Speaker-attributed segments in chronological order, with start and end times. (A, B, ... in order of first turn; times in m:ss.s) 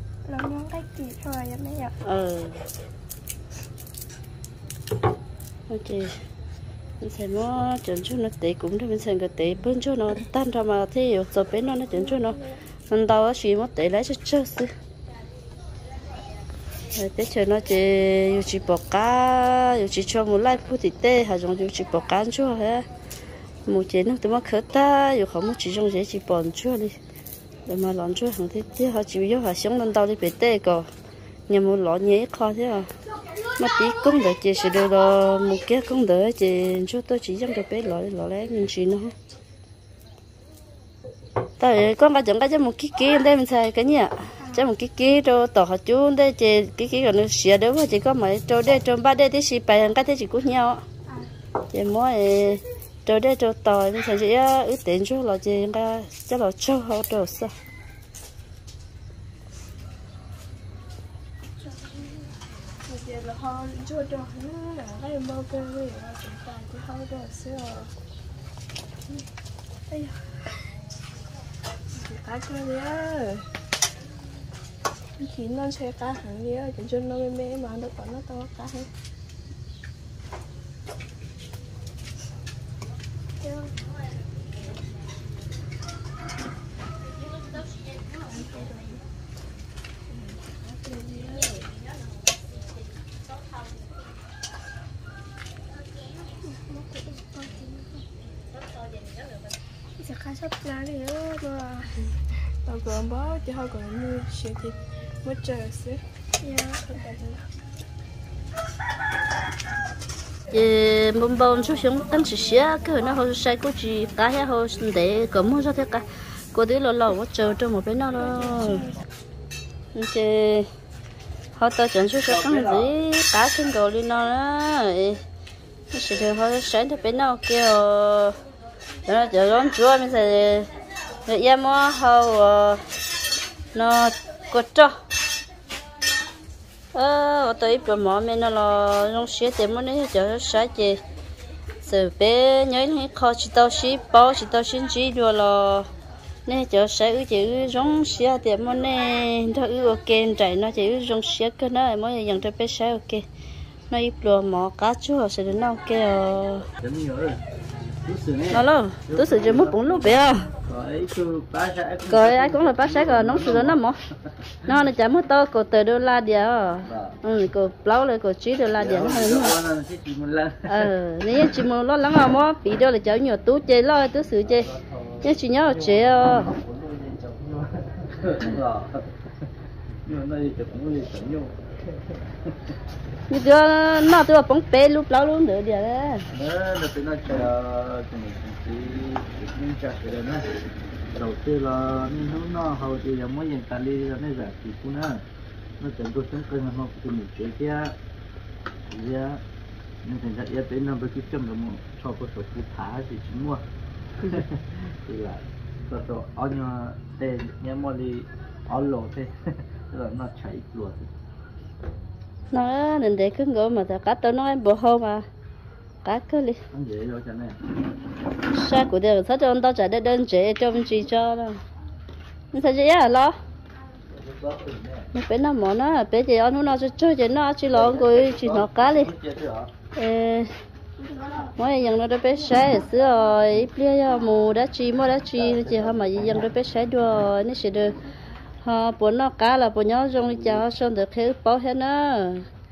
0:00.3-0:01.9 A
0:02.0-0:02.6 B
0:05.7-0:06.1 B
0:07.0-0:14.7 B
0:16.9-0:22.8 B
0:23.6-0:26.9 B
0:27.7-0:30.9 B
0:31.5-0:32.9 B
0:33.6-0:39.1 B
0:41.6-0:50.8 B
0:51.7-0:57.5 B
1:02.8-1:07.9 A
1:09.9-1:10.4 A
1:11.9-1:13.4 A
1:15.2-1:18.9 A
1:23.4-1:23.7 A
1:28.1-1:29.0 A
1:30.1-1:31.7 A
1:36.4-1:37.8 A
1:40.0-1:42.0 A
1:42.6-1:47.5 A
1:50.5-1:58.9 B
1:59.9-2:00.7 B
2:01.6-2:05.2 B
2:02.2-2:02.9 C
2:05.9-2:08.3 B
2:09.0-2:10.7 B
2:11.2-2:12.8 B
2:13.7-2:14.9 B
2:16.9-2:21.0 B
2:21.8-2:25.9 B
2:26.4-2:33.2 B
2:33.9-2:36.6 B
2:36.8-2:40.1 C
2:38.5-2:40.5 B
2:40.6-2:43.8 C
2:42.1-2:43.9 B
2:44.6-2:49.6 B
2:46.8-2:47.2 C
2:48.7-2:50.9 C
2:50.7-2:54.7 B
2:54.5-2:59.1 C
2:55.2-2:56.5 B
3:00.0-3:01.5 C
3:03.3-3:06.2 B
3:06.3-3:10.5 C
3:11.1-3:15.2 C
3:15.8-3:17.9 C
3:18.9-3:19.4 C
3:20.0-3:23.6 C
3:24.2-3:31.1 C
3:32.5-3:35.2 B
3:36.0-3:36.6 B
3:36.7-3:37.6 C
3:38.5-3:41.6 B
3:42.5-3:43.4 B
3:44.1-3:45.1 C
3:45.1-3:49.1 B
3:47.7-3:49.7 C
3:50.0-3:50.5 B
3:51.6-3:57.9 B
3:55.4-3:55.9 C
3:58.6-4:02.5 B